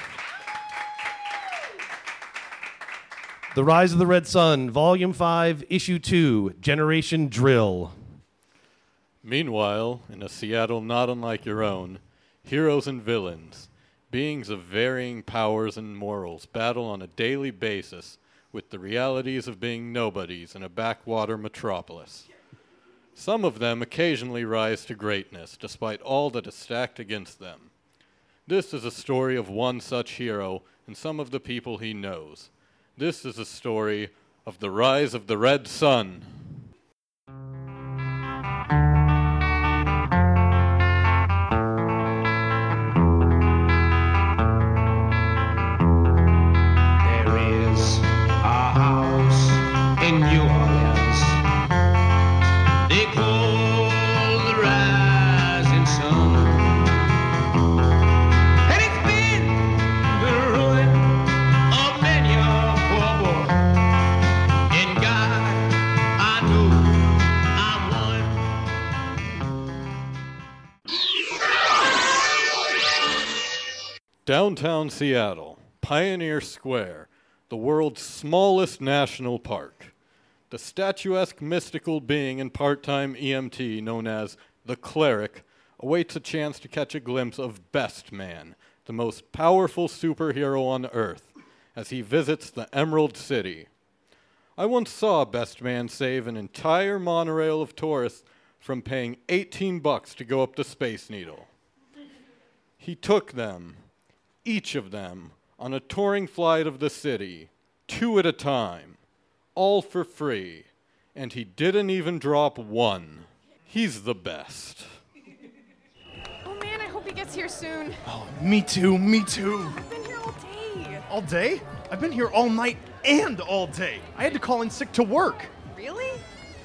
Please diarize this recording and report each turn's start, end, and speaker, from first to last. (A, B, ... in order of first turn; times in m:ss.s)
0:03.5-0:08.0 A
0:09.2-0:22.3 B
0:23.1-0:27.7 B
0:28.4-0:36.4 B
0:47.0-0:51.4 C
0:52.8-0:57.0 C
0:58.6-1:03.7 C
1:04.7-1:08.5 C
1:14.2-1:19.9 B
1:20.5-1:33.7 B
1:34.6-1:41.5 B
1:42.8-1:43.8 B
1:44.4-1:49.0 B
1:49.5-1:54.8 B
1:56.4-1:58.0 D
1:58.0-1:59.8 E
1:59.8-2:01.0 D
2:01.1-2:05.5 E
2:05.7-2:06.2 D